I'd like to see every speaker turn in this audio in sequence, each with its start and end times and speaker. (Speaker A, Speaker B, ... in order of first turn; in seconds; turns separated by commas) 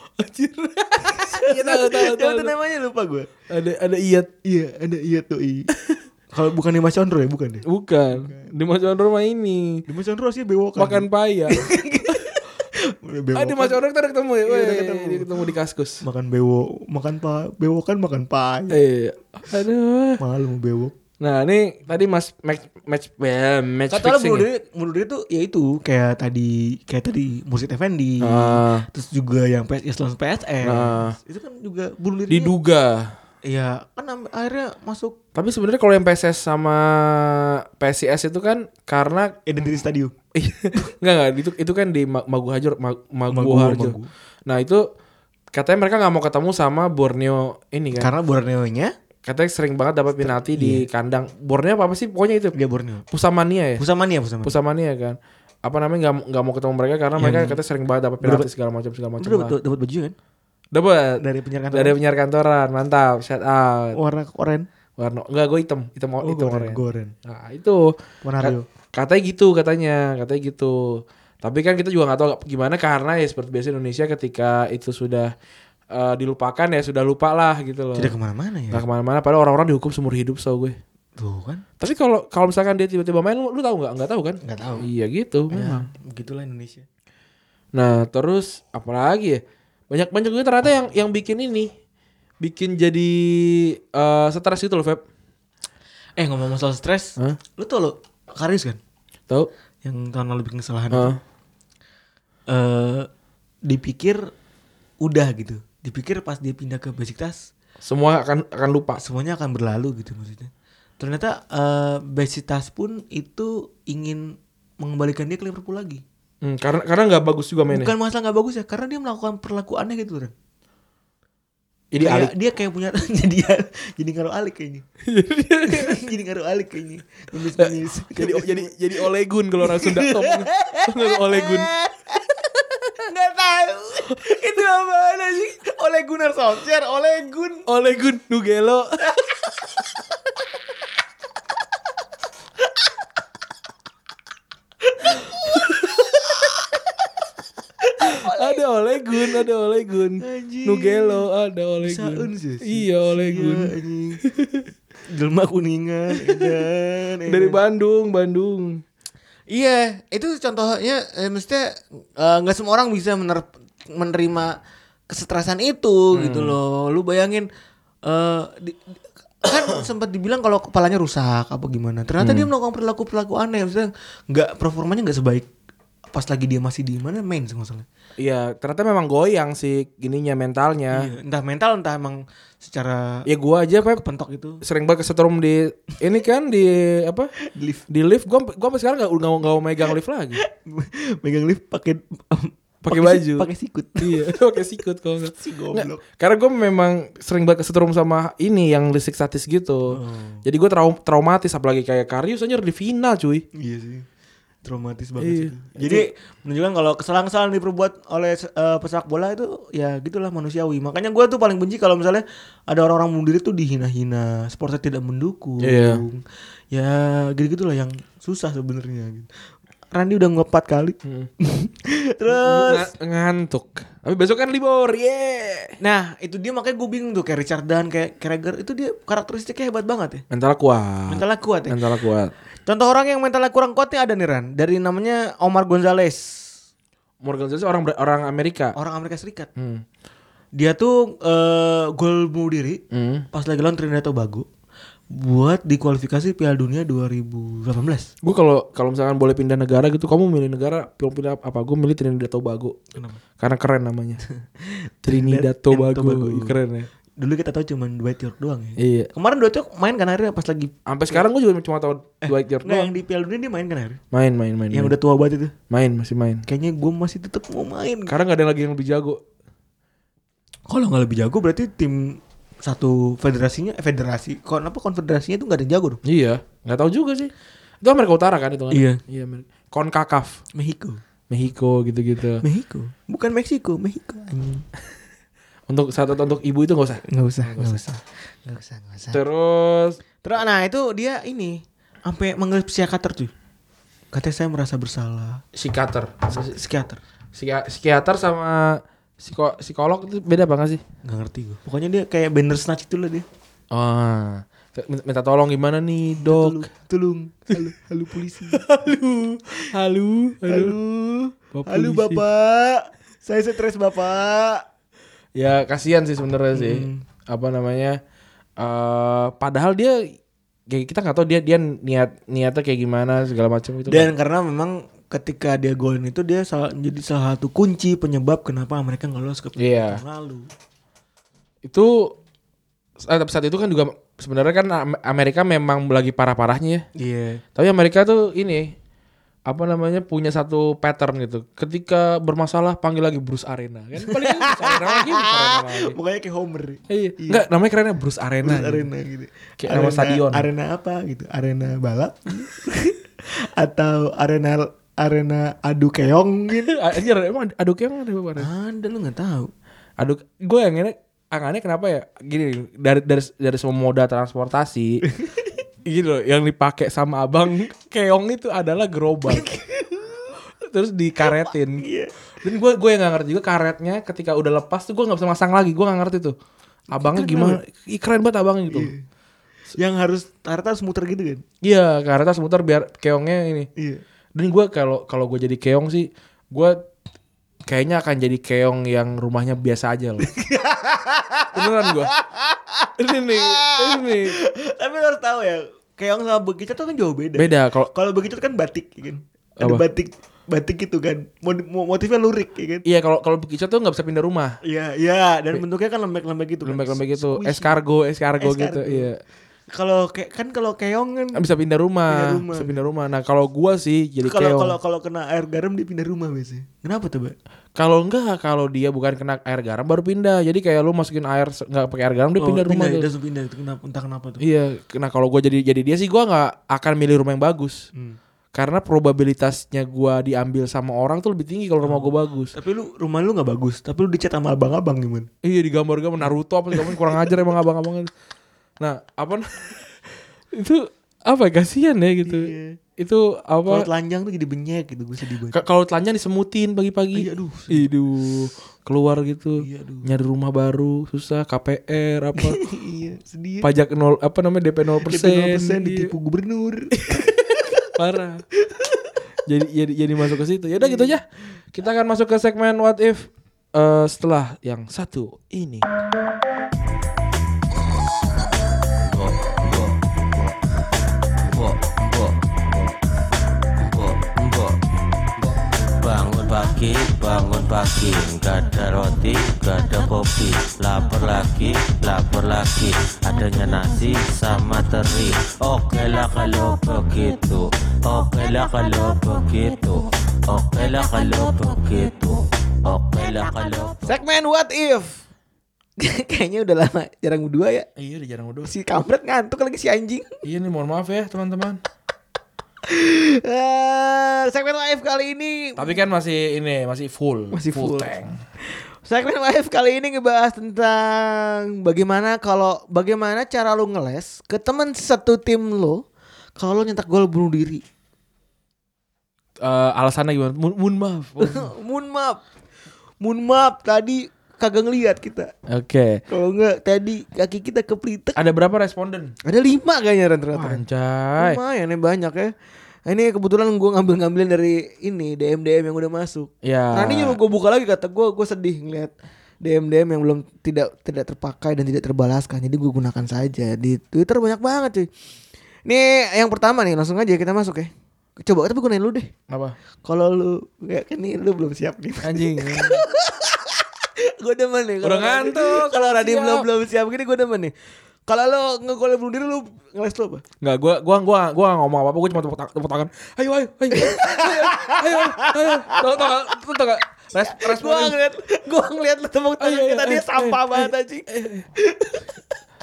Speaker A: 0.2-2.5, Speaker B: 1.0-3.3, Speaker A: 3.5-4.3, Speaker B: 4.5-5.7, Speaker B: 6.3-8.5, Speaker A: 7.7-9.8, Speaker B: 9.9-13.8, Speaker A: 10.8-12.2, Speaker A: 13.3-16.0, Speaker B: 14.4-15.4, Speaker B: 16.0-18.8, Speaker A: 18.7-20.2, Speaker B: 20.2-20.9, Speaker A: 21.2-24.5, Speaker B: 23.9-32.5, Speaker A: 28.2-28.9, Speaker A: 30.6-31.2, Speaker A: 32.3-33.2, Speaker B: 33.5-35.2, Speaker A: 35.4-39.4, Speaker B: 39.5-40.1, Speaker A: 40.4-44.9, Speaker B: 43.3-44.1, Speaker A: 45.5-48.1, Speaker B: 48.0-48.9, Speaker A: 49.2-52.5, Speaker B: 50.2-50.9, Speaker B: 52.5-53.0, Speaker A: 53.1-53.9, Speaker B: 53.8-54.5, Speaker A: 54.4-59.6, Speaker B: 57.2-57.6, Speaker B: 58.2-58.5, Speaker B: 59.2-60.1, Speaker A: 60.7-64.0, Speaker B: 61.2-62.0, Speaker B: 64.0-64.7, Speaker A: 65.0-75.3, Speaker B: 66.2-67.1, Speaker B: 68.2-68.7, Speaker A: 75.9-78.1, Speaker B: 78.0-78.8, Speaker A: 78.7-80.8, Speaker B: 81.2-81.6, Speaker A: 81.8-85.9, Speaker B: 84.4-84.9, Speaker B: 85.5-86.8, Speaker A: 87.7-91.7, Speaker A: 92.4-95.0, Speaker B: 96.2-98.8, Speaker B: 99.8-101.2, Speaker A: 100.9-101.2, Speaker B: 102.5-103.1, Speaker B: 103.7-104.3, Speaker B: 105.0-107.5, Speaker A: 107.8-109.0, Speaker B: 109.0-116.0, Speaker A: 116.4-117.9, Speaker B: 117.7-120.3, Speaker A: 121.9-122.3, Speaker B: 122.0-124.8, Speaker A: 125.1-126.0, Speaker B: 125.7-129.1, Speaker A: 127.6-131.7, Speaker B: 129.6-137.7, Speaker A: 134.1-134.5, Speaker A: 137.7-139.1, Speaker A: 145.5-145.9, Speaker B: 148.0-148.6, Speaker A: 148.1-153.7, Speaker B: 150.2-151.3, Speaker B: 151.8-154.2, Speaker A: 154.2-154.7, Speaker B: 155.1-157.6, Speaker A: 156.3-156.6, Speaker A: 157.3-158.8, Speaker B: 159.5-164.6, Speaker B: 165.1-167.5, Speaker A: 166.1-166.6, Speaker B: 168.1-175.5, Speaker A: 172.2-172.5, Speaker B: 176.1-177.9, Speaker A: 178.2-181.1, Speaker B: 180.9-183.3, Speaker A: 183.3-184.0, Speaker B: 183.9-184.6, Speaker A: 184.6-187.3, Speaker B: 187.4-187.8, Speaker A: 187.9-190.4, Speaker B: 190.4-194.4, Speaker A: 192.8-203.4, Speaker B: 195.4-196.0, Speaker B: 199.9-200.4, Speaker B: 203.6-204.1, Speaker B: 204.6-219.3, Speaker A: 205.2-206.1, Speaker A: 215.6-216.0, Speaker B: 219.9-222.9, Speaker A: 221.0-221.3, Speaker A: 222.3-225.8, Speaker B: 225.8-230.2, Speaker A: 230.3-232.3, Speaker B: 231.1-231.8, Speaker B: 232.7-236.5, Speaker A: 237.2-238.8, Speaker B: 238.8-239.5, Speaker A: 239.6-239.8, Speaker B: 240.6-242.8, Speaker A: 242.9-243.3, Speaker B: 243.3-244.5, Speaker B: 245.1-248.1, Speaker A: 248.2-252.8, Speaker B: 252.9-253.2, Speaker A: 253.4-254.2, Speaker B: 254.4-256.6, Speaker A: 255.1-256.9, Speaker B: 257.2-261.2, Speaker A: 258.8-259.1, Speaker A: 260.9-262.9, Speaker B: 262.2-264.0, Speaker A: 264.1-265.0, Speaker B: 264.7-265.5, Speaker A: 265.7-266.4, Speaker B: 266.5-268.1, Speaker A: 268.1-269.2, Speaker B: 270.7-276.0, Speaker A: 276.1-280.4, Speaker B: 278.7-279.0, Speaker B: 280.6-281.0, Speaker A: 281.3-282.4, Speaker B: 282.4-284.6, Speaker A: 285.7-287.8, Speaker B: 287.1-289.2, Speaker A: 289.1-290.0, Speaker B: 290.2-293.3, Speaker B: 294.1-295.4, Speaker A: 295.6-296.6, Speaker B: 296.3-297.0, Speaker A: 297.4-300.8, Speaker B: 301.1-303.3, Speaker A: 303.7-306.6, Speaker B: 306.2-308.7, Speaker A: 308.5-310.8, Speaker B: 310.4-314.6, Speaker A: 311.5-312.2, Speaker A: 315.4-318.0, Speaker B: 316.5-317.0, Speaker A: 318.6-320.1, Speaker A: 320.7-324.1, Speaker B: 323.9-330.5, Speaker A: 329.6-330.0, Speaker A: 331.6-332.2, Speaker A: 333.0-336.9, Speaker B: 337.0-337.4, Speaker A: 337.6-338.7, Speaker A: 339.5-346.0, Speaker B: 344.1-347.4, Speaker A: 346.9-348.9, Speaker B: 348.4-356.8, Speaker A: 349.6-350.5, Speaker A: 356.7-358.5, Speaker B: 358.4-359.5, Speaker A: 360.0-365.0, Speaker A: 365.9-369.5, Speaker B: 369.3-370.3, Speaker A: 370.6-371.9, Speaker B: 371.3-372.1, Speaker A: 372.4-376.4, Speaker A: 376.9-378.9, Speaker B: 376.9-377.6, Speaker B: 378.7-379.0, Speaker B: 379.8-381.4, Speaker A: 381.6-383.7, Speaker B: 383.8-384.0, Speaker A: 384.4-386.8, Speaker A: 387.7-390.3, Speaker B: 390.2-402.9, Speaker A: 391.5-392.1, Speaker A: 393.0-394.4, Speaker A: 397.4-397.9, Speaker A: 399.6-399.8, Speaker A: 402.9-404.6, Speaker B: 404.6-407.8, Speaker A: 406.6-409.2, Speaker B: 408.4-409.1, Speaker B: 409.7-411.4, Speaker A: 411.4-414.8, Speaker B: 412.1-412.9, Speaker B: 414.2-417.4, Speaker A: 417.8-423.1, Speaker B: 422.4-424.4, Speaker A: 424.4-427.8, Speaker A: 428.5-432.5, Speaker B: 431.8-435.3, Speaker A: 435.4-438.1, Speaker B: 436.8-437.0, Speaker A: 438.8-439.9, Speaker A: 440.5-443.9, Speaker B: 442.2-442.8, Speaker B: 443.7-445.6, Speaker A: 445.5-452.6, Speaker B: 447.1-447.9, Speaker B: 449.6-450.1, Speaker B: 452.4-453.7, Speaker A: 453.6-456.1, Speaker B: 455.1-457.7, Speaker A: 456.9-458.4, Speaker A: 459.5-465.9, Speaker B: 460.8-461.2, Speaker C: 469.1-470.0, Speaker C: 471.5-472.9, Speaker C: 473.9-474.8, Speaker C: 476.0-494.2, Speaker B: 494.0-495.2, Speaker B: 496.0-497.9, Speaker A: 498.0-498.7, Speaker B: 498.6-500.4, Speaker A: 500.4-501.8, Speaker B: 502.9-505.9, Speaker A: 505.8-508.4, Speaker B: 507.5-508.1, Speaker B: 509.0-516.0, Speaker B: 516.6-517.8, Speaker A: 519.6-521.7, Speaker B: 521.4-522.4, Speaker B: 523.2-525.5, Speaker A: 525.7-526.2, Speaker B: 526.3-528.4, Speaker A: 528.4-529.4, Speaker B: 529.5-530.8, Speaker A: 530.5-531.6, Speaker B: 531.4-532.5, Speaker B: 533.1-545.1, Speaker A: 536.6-537.4, Speaker B: 545.9-549.3, Speaker A: 549.5-549.8, Speaker B: 550.0-557.7, Speaker A: 552.2-553.0, Speaker A: 555.0-556.7, Speaker B: 558.3-560.4, Speaker A: 560.6-568.2, Speaker B: 564.0-566.3, Speaker B: 567.4-571.3, Speaker A: 569.6-571.7, Speaker B: 571.8-572.3